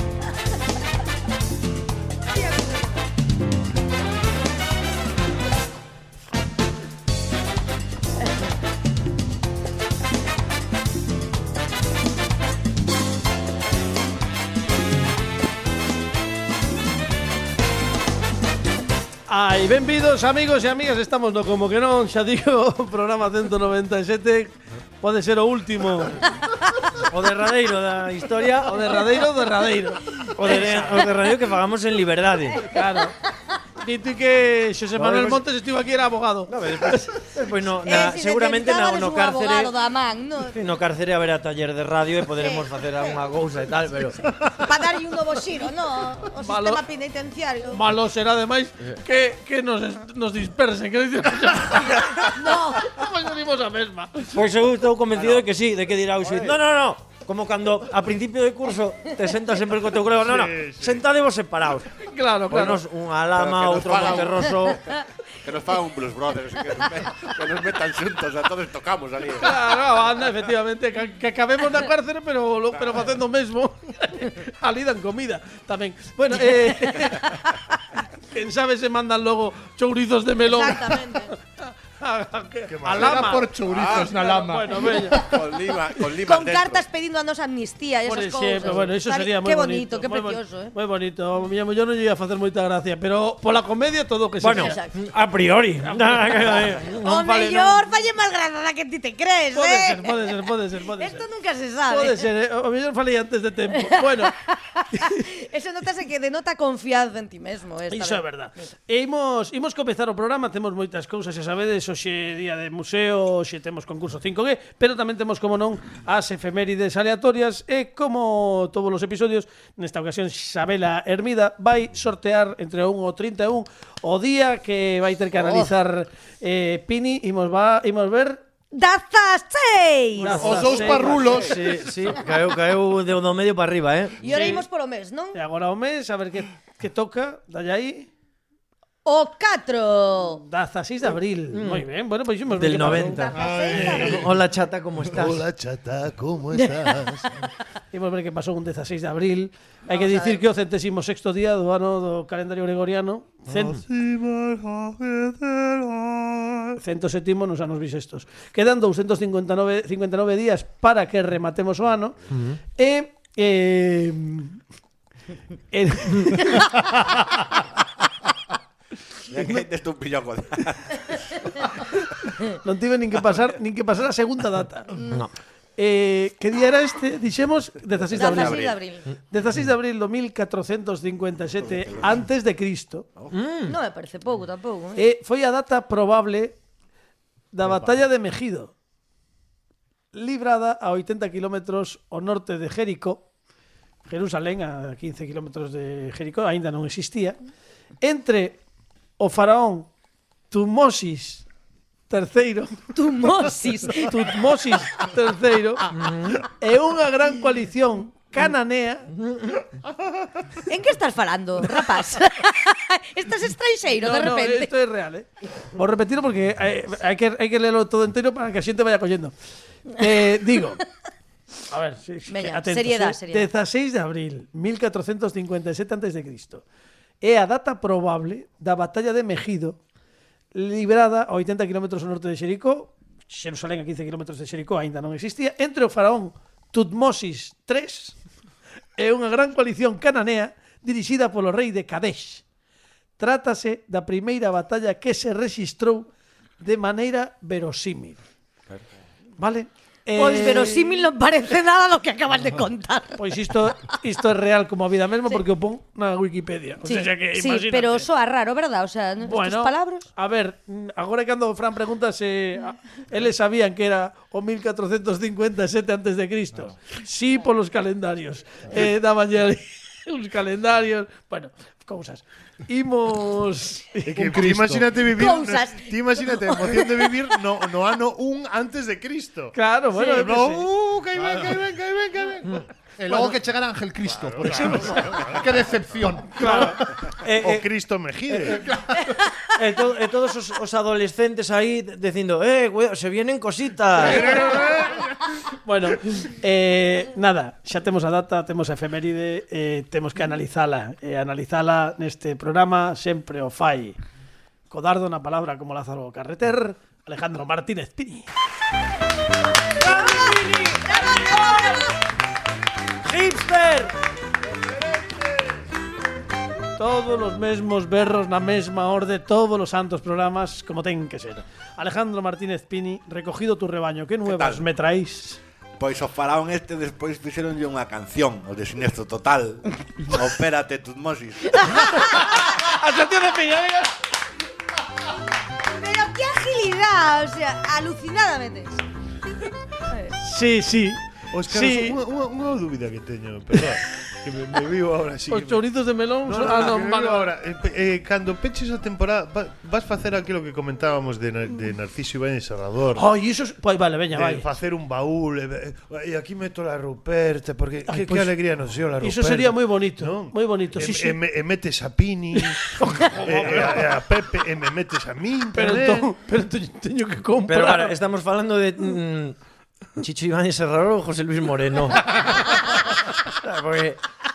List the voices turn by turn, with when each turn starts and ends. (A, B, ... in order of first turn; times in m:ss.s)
0:02.4-0:02.9 A
0:19.3-0:26.3 B
0:27.0-0:29.0 C
0:28.6-0:30.9 B
0:30.4-0:32.6 C
0:32.7-0:33.2 B
0:33.8-0:37.1 B
0:35.0-0:35.4 C
0:36.5-0:39.7 C
0:37.8-0:40.6 A
0:40.5-0:44.2 C
0:42.4-0:43.2 A
0:44.5-0:47.8 A
0:46.4-0:46.8 B
0:47.7-0:54.4 B
0:52.3-0:52.9 A
0:54.3-1:01.9 C
0:55.2-0:55.4 D
1:00.2-1:01.0 E
1:02.0-1:02.8 B
1:02.5-1:04.8 C
1:03.3-1:04.8 D
1:05.4-1:09.6 D
1:09.4-1:23.6 B
1:20.5-1:21.3 A
1:22.7-1:23.4 E
1:22.9-1:24.9 F
1:23.7-1:24.3 D
1:24.2-1:25.3 B
1:24.9-1:25.4 A
1:25.2-1:26.8 D
1:26.2-1:30.7 A
1:28.1-1:34.8 B
1:34.4-1:37.9 C
1:34.5-1:35.0 A
1:35.8-1:36.7 B
1:37.0-1:40.4 A
1:39.5-1:41.2 B
1:41.0-1:42.3 A
1:41.9-1:44.3 B
1:43.8-1:48.2 A
1:44.9-1:45.3 B
1:47.9-2:08.4 B
2:05.4-2:05.7 A
2:08.7-2:10.7 A
2:10.2-2:11.2 B
2:10.4-2:11.6 F
2:10.5-2:14.3 C
2:14.2-2:15.4 A
2:14.3-2:14.6 B
2:15.3-2:18.1 B
2:19.0-2:20.4 A
2:20.4-2:23.3 B
2:21.5-2:21.9 C
2:22.5-2:25.4 C
2:22.6-2:24.2 A
2:23.4-2:24.1 F
2:23.7-2:24.3 E
2:25.1-2:27.3 E
2:26.5-2:27.2 A
2:27.9-2:33.8 B
2:29.9-2:30.4 A
2:33.5-2:36.8 E
2:36.8-2:42.2 B
2:42.3-2:42.6 C
2:42.8-2:44.6 B
2:45.7-2:46.7 B
2:49.3-2:51.1 D
2:52.6-2:55.0 B
2:55.1-2:55.3 C
2:55.8-2:58.7 B
2:58.0-2:58.8 D
2:58.1-2:59.1 A
2:59.3-3:03.1 B
3:01.6-3:02.2 D
3:03.3-3:03.8 C
3:03.7-3:05.1 A
3:05.0-3:06.6 B
3:07.5-3:08.7 B
3:10.1-3:13.2 B
3:14.1-3:17.4 B
3:18.0-3:18.6 B
3:19.2-3:19.9 B
3:20.5-3:21.4 B
3:22.1-3:22.8 B
3:22.9-3:24.4 A
3:23.9-3:25.9 B
3:25.9-3:26.4 C
3:26.5-3:29.1 B
3:29.2-3:29.6 C
3:30.7-3:34.7 A
3:34.0-3:39.3 B
3:39.9-3:40.8 B
3:41.7-3:46.6 B
3:42.3-3:43.5 A
3:47.2-3:49.8 B
3:50.5-3:58.2 B
3:59.0-4:02.4 B
4:03.2-4:06.1 B
4:06.6-4:08.2 B
4:09.4-4:11.0 B
4:10.2-4:13.6 A
4:13.2-4:18.1 B
4:16.8-4:20.1 A
4:19.2-4:34.4 B
4:34.1-4:39.6 E
4:34.2-4:34.8 F
4:35.0-4:37.3 A
4:39.5-4:40.7 B
4:40.0-4:40.2 A
4:40.1-4:43.4 E
4:41.2-4:41.6 F
4:43.0-4:47.0 F
4:44.0-4:45.5 E
4:44.4-4:45.1 B
4:46.4-4:46.8 B
4:47.2-4:47.7 C
4:47.4-4:48.7 E
4:48.5-4:49.1 F
4:49.5-4:54.5 C
4:54.0-4:55.2 E
4:54.2-4:54.5 B
4:55.6-5:04.0 B
5:04.7-5:08.3 B
5:09.8-5:10.8 C
5:09.8-5:11.9 A
5:13.1-5:13.9 B
5:13.2-5:13.8 C
5:16.8-5:25.4 B
5:24.2-5:24.7 D
5:25.8-5:32.0 D
5:32.1-5:33.9 B
5:35.7-5:38.8 A
5:39.9-5:40.1 A
5:40.2-5:42.0 B
5:41.3-5:45.6 E
5:45.3-5:47.3 B
5:46.2-5:53.0 E
5:53.0-5:54.5 B
5:54.1-6:06.1 E
5:57.9-5:58.3 B
5:59.0-6:01.2 B
6:02.4-6:03.9 B
6:05.6-6:08.0 B
6:07.5-6:09.4 C
6:10.0-6:14.0 C